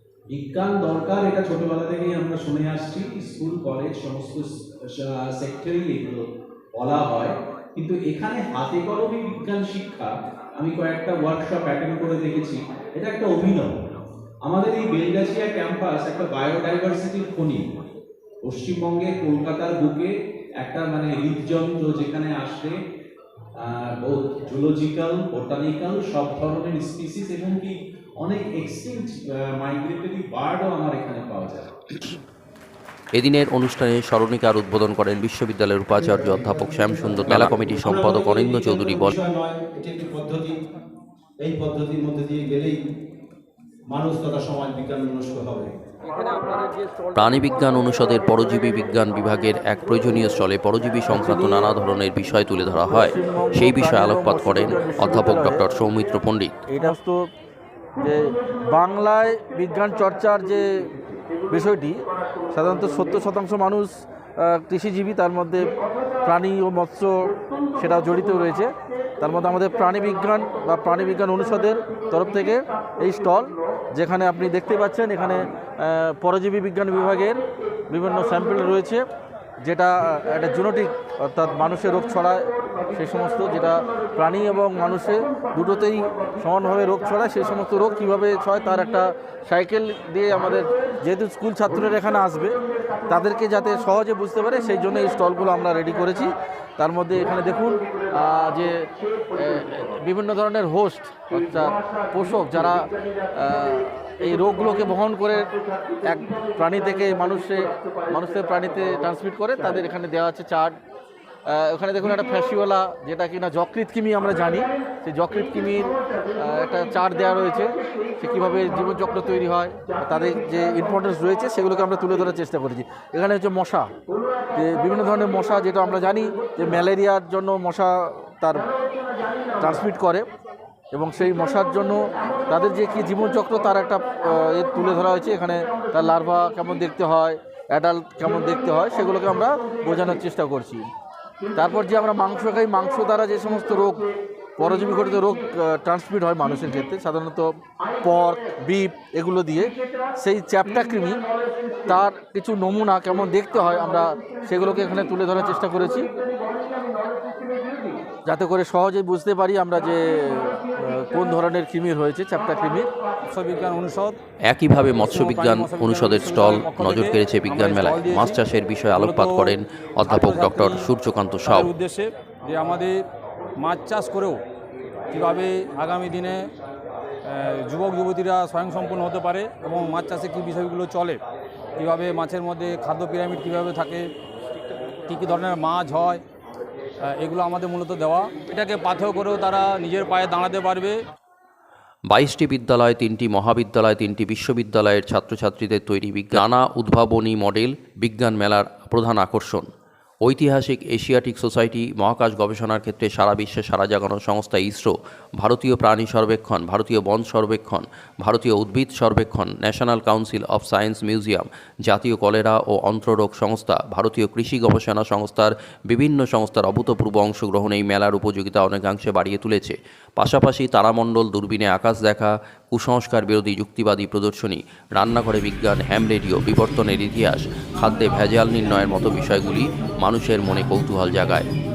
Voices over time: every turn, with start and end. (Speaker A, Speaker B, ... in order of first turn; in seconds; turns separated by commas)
Speaker A: 0.3-6.2, Speaker A: 6.8-13.8, Speaker A: 14.4-17.6, Speaker A: 18.4-22.8, Speaker A: 23.6-31.7, Speaker B: 33.1-39.2, Speaker C: 35.9-40.6, Speaker C: 41.4-42.8, Speaker C: 43.9-45.8, Speaker B: 47.1-56.7, Speaker D: 51.2-51.7, Speaker D: 53.0-55.7, Speaker D: 56.7-57.3, Speaker D: 58.0-79.1, Speaker D: 79.6-110.8, Speaker D: 111.5-123.9, Speaker D: 124.5-128.7, Speaker D: 129.6-130.3, Speaker D: 130.9-140.9, Speaker D: 141.6-151.2, Speaker D: 151.9-156.1, Speaker D: 158.2-162.9, Speaker E: 163.3-164.2, Speaker B: 164.5-171.7, Speaker E: 164.9-168.4, Speaker E: 168.9-170.9, Speaker E: 171.5-173.0, Speaker E: 173.6-174.4, Speaker E: 175.1-176.5, Speaker E: 177.3-181.2, Speaker E: 181.8-184.1, Speaker E: 185.1-186.2, Speaker E: 187.0-191.0, Speaker B: 192.1-199.7, Speaker B: 200.2-231.5